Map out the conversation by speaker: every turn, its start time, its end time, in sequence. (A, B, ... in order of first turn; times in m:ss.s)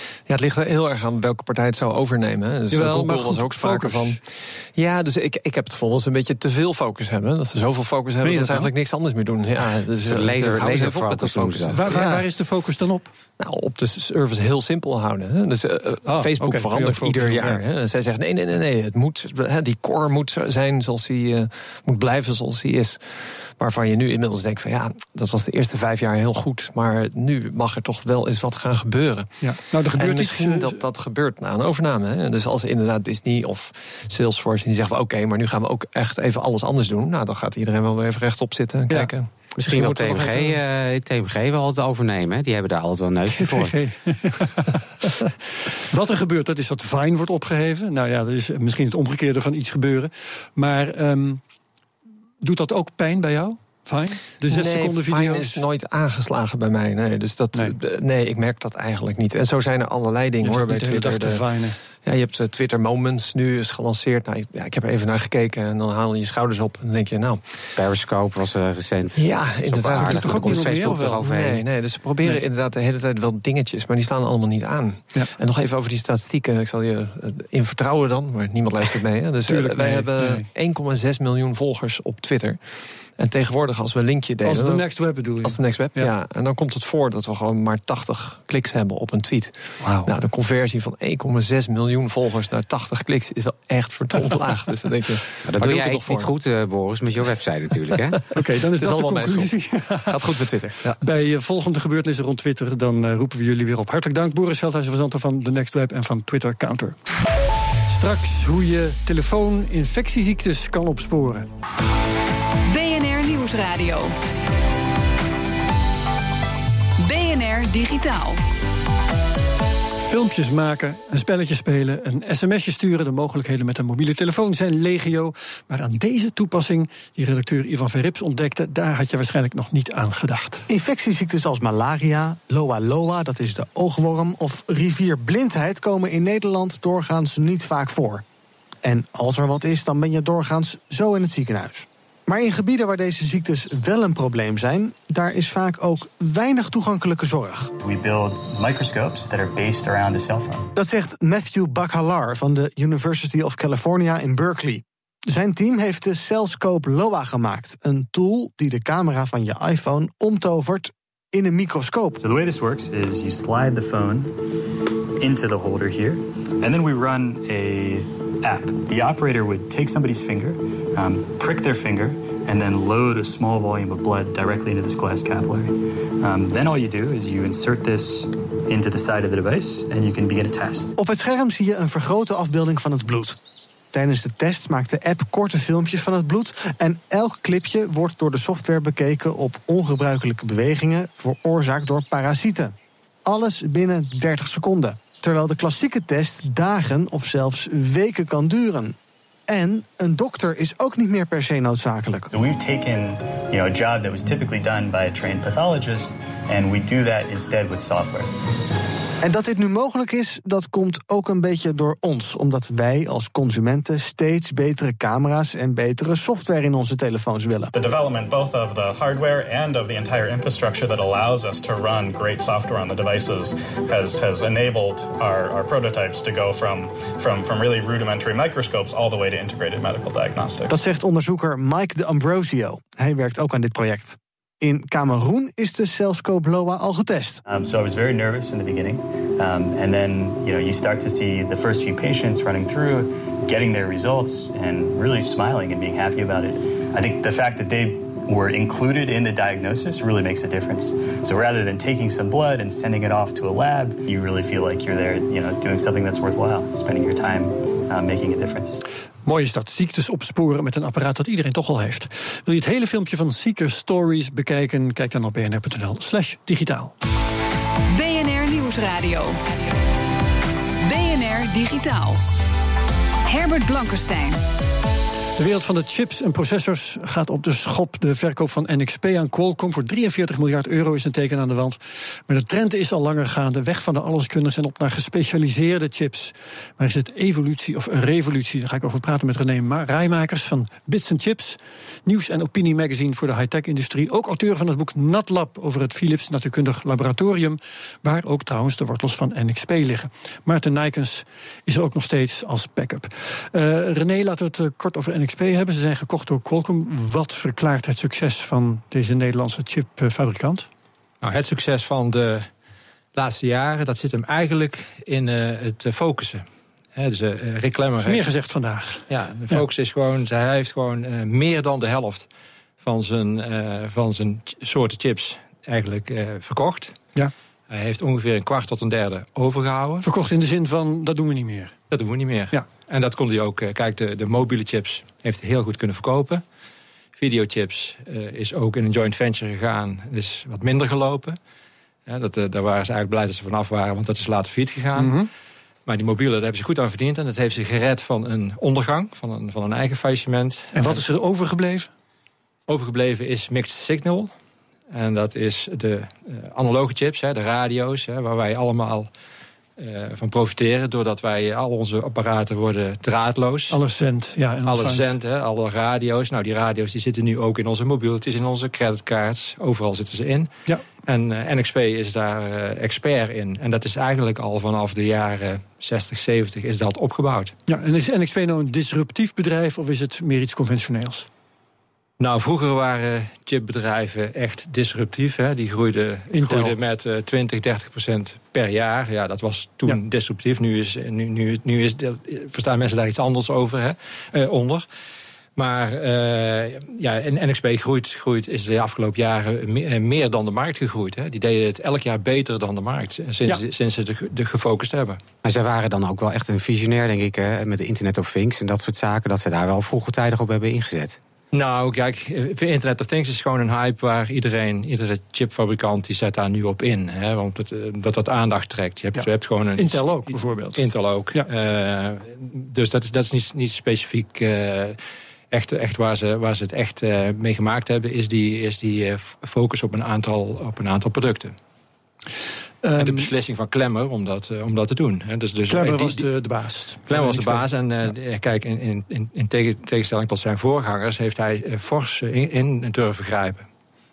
0:00.3-0:12.3 A
0:02.7-0:04.2 B
0:08.2-0:08.7 B
0:10.0-0:12.0 C
0:11.7-0:13.1 B
0:13.4-0:40.4 A
0:16.0-0:17.6 B
0:29.4-0:30.8 B
0:39.6-0:43.7 C
0:39.7-0:40.5 B
0:43.3-0:51.4 B
0:52.4-0:55.6 B
0:54.5-1:07.9 A
1:00.4-1:01.8 B
1:07.8-1:11.6 C
1:09.1-1:22.6 A
1:10.0-1:11.2 B
1:19.4-1:20.5 B
1:23.2-1:36.3 A
1:24.4-1:26.1 B
1:29.8-1:30.1 B
1:35.4-1:38.2 C
1:37.9-1:38.2 A
1:38.3-1:40.2 B
1:38.8-1:41.0 A
1:41.0-1:47.0 B
1:47.9-1:51.5 B
1:52.6-1:54.2 D
1:57.0-1:58.4 D
2:00.0-2:10.7 B
2:10.7-2:18.2 E
2:18.8-2:27.7 E
2:27.8-2:30.7 F
2:30.7-2:42.2 E
2:42.2-2:44.3 F
2:45.2-3:00.9 F
3:01.0-3:03.4 E
3:03.9-3:12.7 E
3:13.2-3:19.0 E
3:19.5-3:22.3 E
3:22.3-3:28.3 F
3:29.2-3:37.7 E
3:37.7-3:50.8 G
3:50.7-3:57.4 E
3:57.5-4:18.8 F
4:19.2-4:26.9 B
4:27.9-4:29.7 D
4:30.8-4:32.2 D
4:33.2-4:34.4 D
4:35.4-5:10.7 B
5:11.2-5:12.5 H
5:13.1-5:18.3 H
5:18.0-5:19.6 B
5:19.1-5:22.3 H
5:22.8-5:27.0 H
5:27.7-5:30.1 H
5:30.0-5:31.7 B
5:31.9-5:36.4 H
5:37.2-5:41.4 H
5:42.1-5:45.2 H
5:45.0-5:45.3 B
5:45.8-5:51.0 H
5:50.7-5:51.9 B
5:52.7-5:54.3 H
5:54.9-5:59.1 H
5:59.8-6:03.8 H
6:03.7-6:05.1 B
6:04.6-6:10.5 H
6:11.0-6:17.5 H
6:17.7-6:21.3 B
6:22.2-6:34.8 H
6:26.3-6:26.8 B
6:35.6-6:45.2 H
6:45.4-6:51.2 C
6:51.5-7:05.0 H
6:59.1-7:01.5 B
7:05.5-7:11.5 H
7:12.8-7:13.3 B
7:13.0-7:16.3 H
7:15.7-7:18.1 B
7:17.1-7:23.6 H